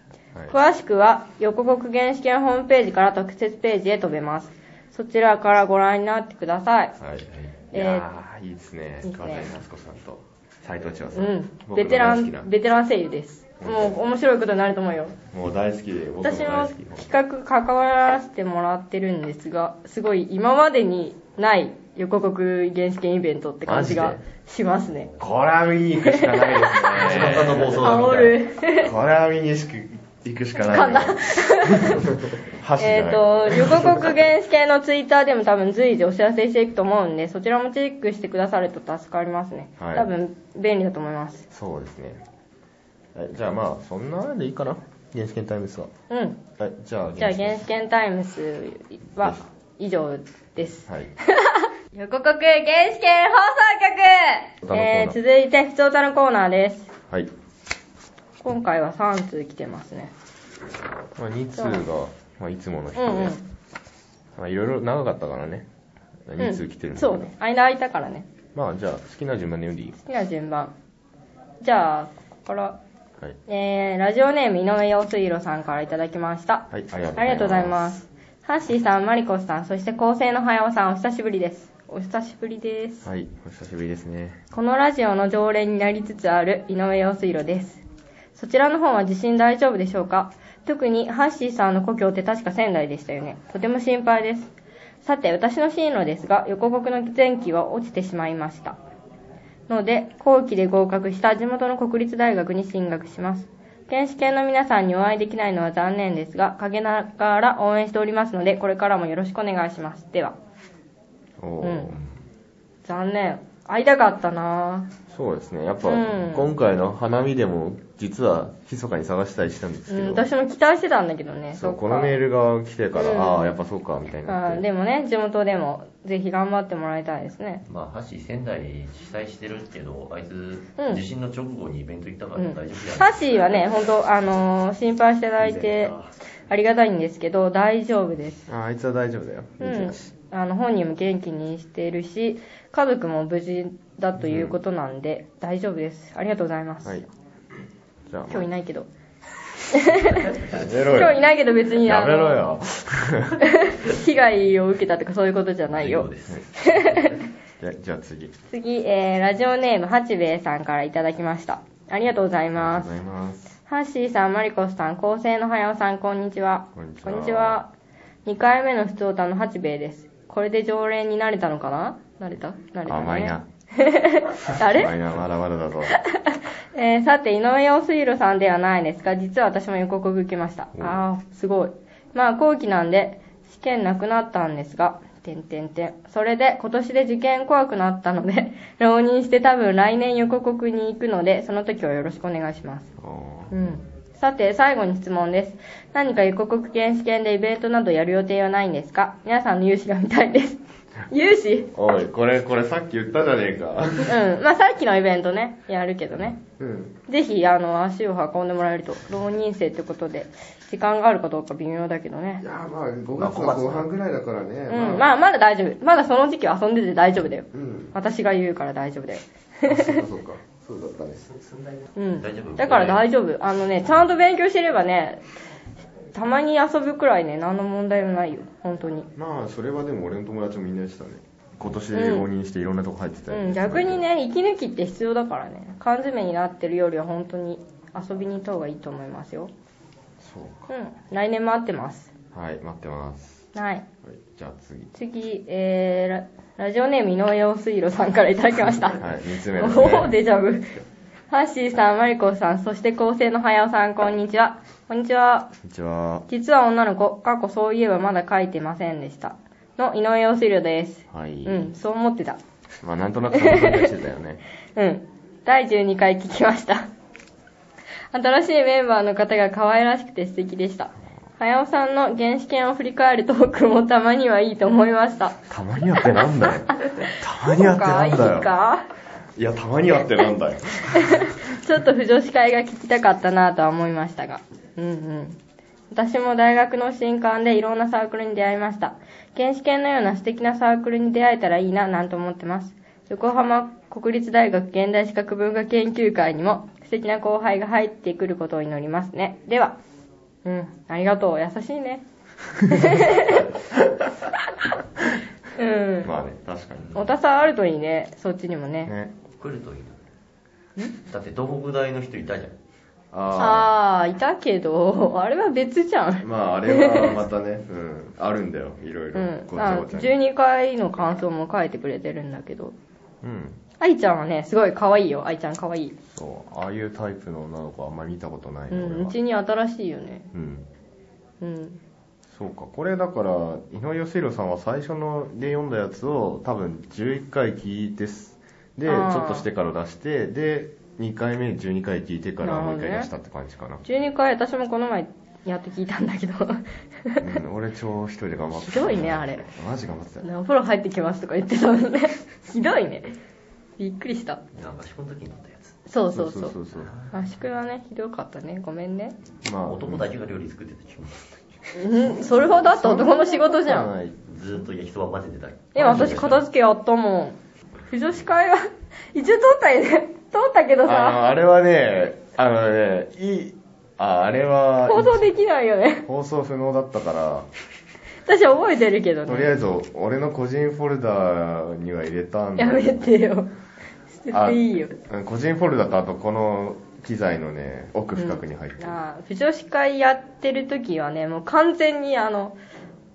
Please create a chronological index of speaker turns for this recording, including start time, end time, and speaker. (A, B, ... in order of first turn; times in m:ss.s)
0:00.5-0:07.0 A
0:07.0-0:12.5 B
0:07.7-0:08.0 A
0:09.0-0:09.5 A
0:11.1-0:15.2 A
0:13.6-0:14.0 B
0:15.3-0:17.1 B
0:16.2-0:25.1 A
0:23.6-0:24.2 B
0:25.2-0:27.9 B
0:26.0-0:28.9 A
0:27.0-0:28.4 C
0:28.8-0:34.2 B
0:30.6-0:32.1 A
0:32.8-0:41.4 A
0:39.8-0:40.1 B
0:41.5-0:42.2 B
0:43.1-0:45.9 B
0:46.1-0:46.4 A
0:46.6-0:47.6 B
0:47.2-0:56.9 A
0:54.6-0:55.2 B
0:58.4-1:00.1 A
1:01.1-1:03.4 B
1:01.6-1:01.8 A
1:03.0-1:03.4 A
1:04.4-1:05.7 B
1:06.3-1:07.3 B
1:06.4-1:08.3 A
1:08.5-1:10.0 B
1:10.0-1:10.7 A
1:11.6-1:12.8 A
1:13.5-1:23.1 A
1:16.7-1:18.0 B
1:23.0-1:24.4 B
1:24.5-1:27.8 A
1:28.3-1:38.8 A
1:39.7-1:50.4 A
1:51.4-1:52.0 B
1:51.6-1:51.9 A
1:52.8-1:54.9 A
1:55.1-2:00.3 B
1:55.8-1:56.5 A
1:59.9-2:02.2 A
2:01.5-2:04.6 B
2:03.0-2:03.6 A
2:04.3-2:07.6 A
2:07.6-2:13.4 C
2:10.8-2:11.0 A
2:12.4-2:15.9 A
2:15.4-2:16.1 C
2:16.5-2:18.5 A
2:18.5-2:20.0 B
2:19.6-2:27.0 A
2:24.2-2:24.5 B
2:28.1-2:28.5 B
2:28.3-2:28.9 A
2:29.7-2:32.5 A
2:30.4-2:33.4 B
2:33.4-2:37.2 A
2:35.7-2:36.4 C
2:37.6-2:38.3 B
2:38.5-2:42.9 A
2:42.6-2:43.5 B
2:43.7-2:47.7 A
2:46.7-2:47.6 B
2:48.2-2:54.9 A
2:52.8-2:53.4 B
2:54.5-2:56.0 B
2:55.9-3:12.9 A
3:00.7-3:01.0 B
3:13.0-3:13.7 B
3:13.5-3:21.7 A
3:21.7-3:24.2 B
3:24.0-3:26.4 A
3:26.4-3:27.0 B
3:27.1-3:32.4 A
3:32.4-3:35.1 B
3:33.2-3:33.9 C
3:34.7-3:40.0 A
3:37.5-3:37.9 B
3:39.7-3:41.4 B
3:42.0-3:45.2 A
3:42.2-3:43.0 C
3:46.1-3:49.1 A
3:49.2-3:54.0 B
3:51.9-3:52.3 A
3:53.3-3:59.5 A
4:00.2-4:00.7 B
4:00.7-4:02.1 A
4:02.3-4:03.5 B
4:03.5-4:03.8 A
4:04.0-4:04.9 B
4:04.9-4:10.8 A
4:09.0-4:10.1 B
4:11.3-4:15.5 A
4:15.6-4:16.3 B
4:16.3-4:22.4 A
4:21.1-4:21.7 B
4:22.8-4:24.4 B
4:23.3-4:23.9 A
4:24.8-4:26.9 A
4:28.1-4:35.4 A
4:35.5-4:38.5 B
4:36.2-4:38.8 A
4:39.4-4:41.4 B
4:40.9-4:45.4 A
4:45.9-4:59.8 A
5:00.4-5:02.0 A
5:02.6-5:03.5 A
5:03.0-5:04.0 B
5:05.5-5:06.1 A
5:06.0-5:07.0 B
5:06.8-5:07.1 C
5:06.9-5:08.9 A
5:08.8-5:09.1 B
5:09.4-5:10.0 C
5:11.0-5:12.6 C
5:13.1-5:13.7 B
5:13.4-5:17.2 A
5:16.2-5:20.2 B
5:19.1-5:22.7 A
5:23.2-5:23.6 B
5:23.8-5:26.0 A
5:26.1-5:29.1 B
5:28.7-5:30.3 A
5:30.3-5:30.6 B
5:31.4-5:31.8 A
5:32.3-5:43.8 B
5:38.8-5:39.4 A
5:42.4-5:43.1 A
5:43.8-5:47.3 A
5:47.2-5:50.3 B
5:48.6-5:49.5 A
5:50.2-5:53.1 A
5:53.8-5:54.4 A
5:54.5-5:55.8 C
5:55.9-5:56.6 A
5:56.1-5:56.9 B
5:56.8-5:57.1 C
5:57.1-5:59.1 A
5:59.4-6:00.1 B
5:59.7-6:01.4 C
6:01.7-6:03.9 A
6:02.3-6:04.2 B
6:04.2-6:06.4 C
6:05.7-6:07.4 A
6:05.8-6:06.3 B
6:07.9-6:11.2 A
6:10.8-6:15.3 B
6:14.8-6:16.1 A
6:16.0-6:17.5 B
6:18.2-6:19.5 A
6:19.2-6:23.1 B
6:22.6-6:23.5 A
6:24.1-6:25.0 A
6:24.3-6:29.0 B
6:28.2-6:32.6 A